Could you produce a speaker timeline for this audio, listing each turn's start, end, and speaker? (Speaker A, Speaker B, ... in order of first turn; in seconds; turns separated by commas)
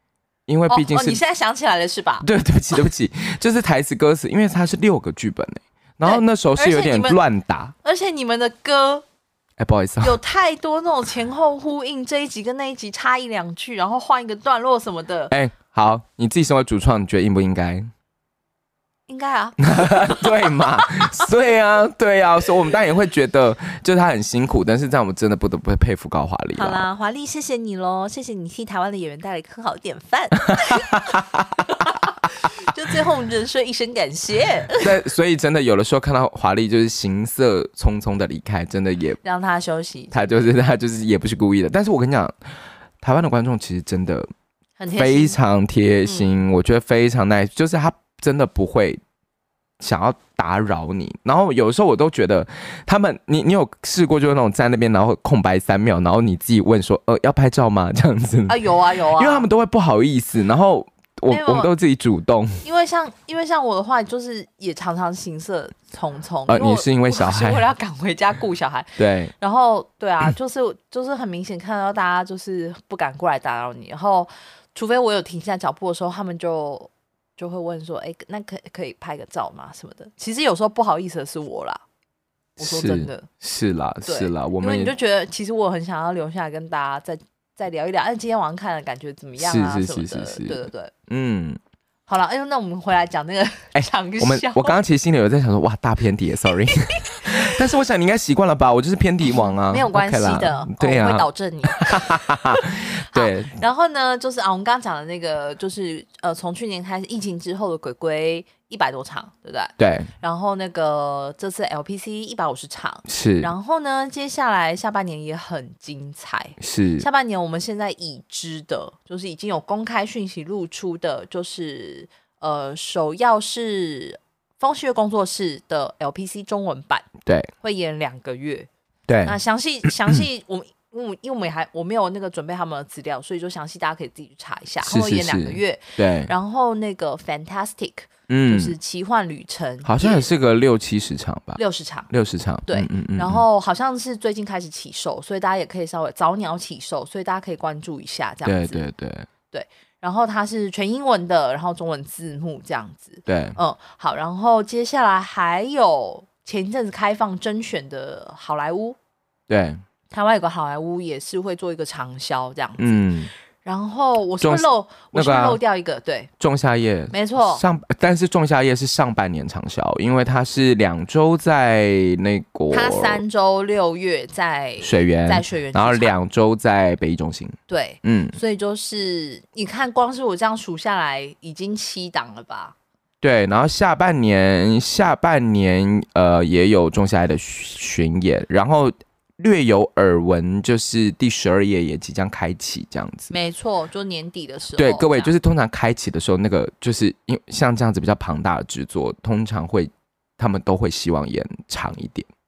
Speaker A: 0.5-1.2, Speaker B: 0.7-2.3, Speaker A: 2.2-7.7, Speaker B: 6.0-7.2, Speaker B: 7.8-9.0, Speaker A: 9.6-10.2, Speaker B: 10.0-15.3, Speaker A: 15.3-17.9, Speaker B: 19.1-21.2, Speaker A: 19.6-26.8, Speaker B: 26.5-31.2, Speaker A: 30.7-31.2, Speaker B: 31.8-35.0, Speaker A: 34.8-39.2, Speaker B: 39.2-40.5, Speaker A: 40.1-42.4, Speaker A: 43.0-44.3, Speaker B: 44.8-45.4, Speaker A: 44.9-49.0, Speaker B: 46.0-46.3, Speaker A: 49.8-62.6, Speaker B: 58.5-59.5, Speaker B: 61.3-61.7, Speaker B: 62.6-81.8, Speaker A: 66.5-67.6, Speaker A: 69.0-69.3, Speaker A: 82.6-84.9, Speaker B: 82.6-83.3, Speaker B: 84.0-90.9, Speaker A: 89.4-91.6, Speaker B: 92.1-94.8, Speaker A: 93.7-103.5, Speaker B: 96.7-97.3, Speaker B: 99.3-127.1, Speaker A: 109.8-110.1, Speaker A: 113.1-113.5, Speaker A: 116.6-117.0, Speaker A: 127.2-127.5, Speaker B: 127.6-128.7, Speaker A: 129.1-129.3, Speaker B: 129.2-140.3, Speaker A: 134.8-136.3, Speaker A: 138.3-138.7, Speaker A: 139.8-143.4, Speaker B: 141.6-142.1, Speaker B: 142.7-148.9, Speaker A: 148.4-149.3, Speaker B: 149.5-159.0, Speaker A: 153.3-153.6, Speaker A: 159.5-159.8, Speaker B: 160.1-163.1, Speaker A: 162.8-163.3, Speaker B: 163.6-166.3, Speaker A: 164.4-165.6, Speaker A: 166.4-173.2, Speaker B: 167.1-167.6, Speaker B: 172.7-176.1, Speaker A: 174.8-178.4, Speaker B: 177.7-182.8, Speaker A: 183.2-193.3, Speaker B: 193.3-195.3, Speaker A: 194.8-202.3